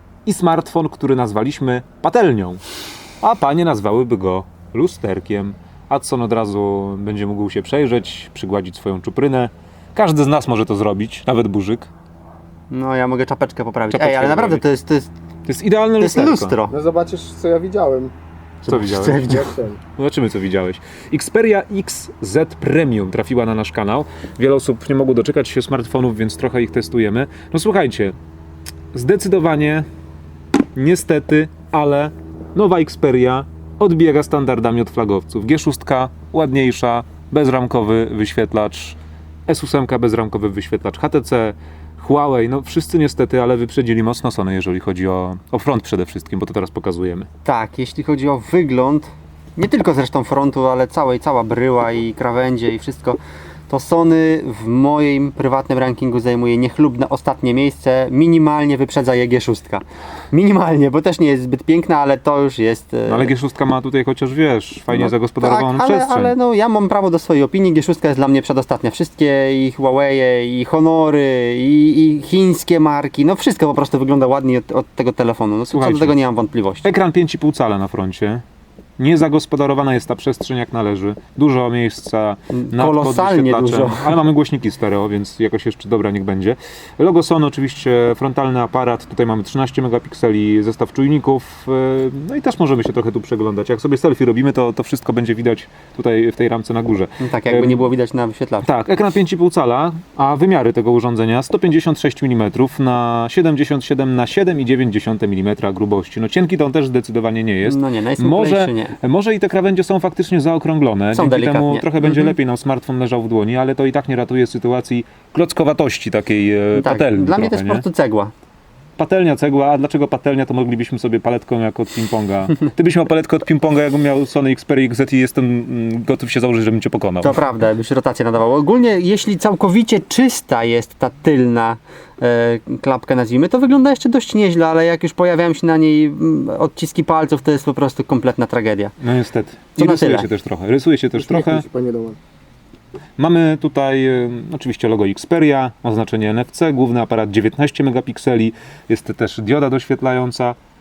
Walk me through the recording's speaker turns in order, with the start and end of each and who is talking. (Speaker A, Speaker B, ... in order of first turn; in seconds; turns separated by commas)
Speaker A: 0.2-2.6, Speaker A: 3.2-11.9, Speaker B: 12.7-15.1, Speaker A: 13.9-14.6, Speaker A: 15.4-16.6, Speaker B: 16.0-16.7, Speaker C: 16.7-18.1, Speaker A: 18.6-28.1, Speaker B: 18.7-19.5, Speaker C: 19.0-19.7, Speaker A: 28.9-29.9, Speaker A: 30.7-47.3, Speaker B: 47.4-63.3, Speaker A: 63.1-66.3, Speaker B: 64.9-76.9, Speaker A: 75.7-76.1, Speaker A: 76.8-78.4, Speaker A: 79.0-97.9, Speaker B: 82.5-84.1, Speaker B: 97.2-98.7, Speaker A: 98.6-117.8, Speaker B: 107.6-109.0, Speaker B: 111.1-112.3, Speaker B: 116.7-118.3, Speaker A: 119.0-127.4, Speaker B: 127.2-138.9, Speaker A: 139.0-141.6, Speaker B: 139.8-140.3, Speaker C: 141.2-142.2, Speaker A: 143.2-150.6